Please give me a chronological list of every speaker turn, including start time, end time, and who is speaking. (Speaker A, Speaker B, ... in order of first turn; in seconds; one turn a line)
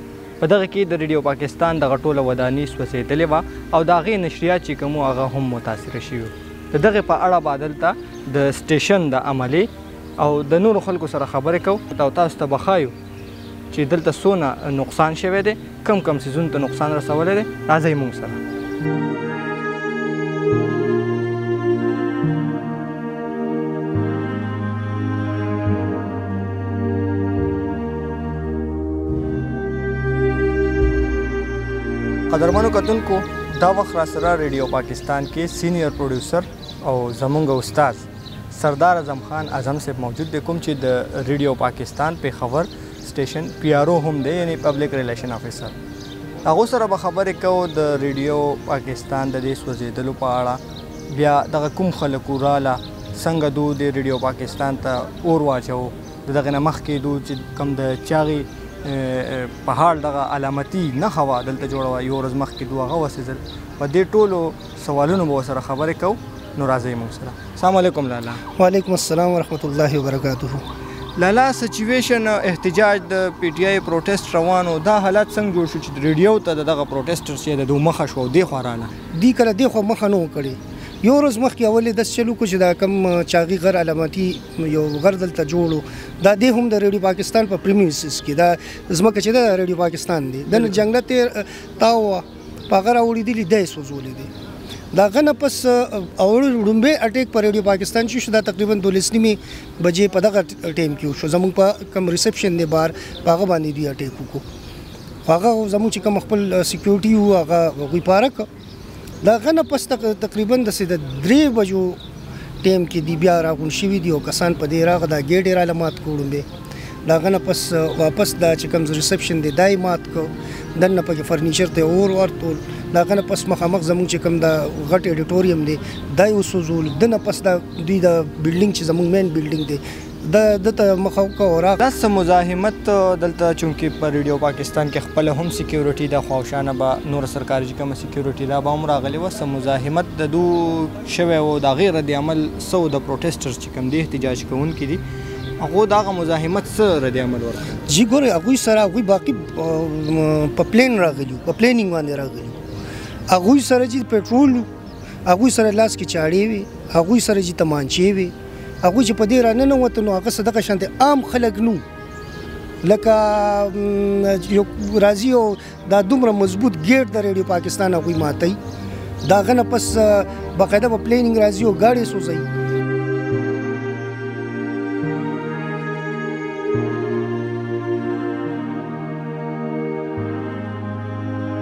Speaker A: 0.4-9.7
Speaker A: 10.2-12.9
Speaker A: 13.7-18.4
Speaker A: 32.3-45.7
Speaker A: 46.4-68.4
Speaker B: 68.6-70.6
Speaker A: 71.2-78.9
Speaker B: 79.1-94.3
Speaker A: 90.5-90.8
Speaker B: 94.9-104.4
Speaker B: 105.2-108.5
Speaker B: 109.2-112.0
Speaker B: 112.6-116.5
Speaker B: 117.0-131.8
Speaker A: 131.8-145.0
Speaker A: 145.6-147.8
Speaker B: 147.9-152.6
Speaker B: 153.3-154.7
Speaker B: 155.2-161.8
Speaker B: 162.8-168.6
Speaker B: 169.2-172.4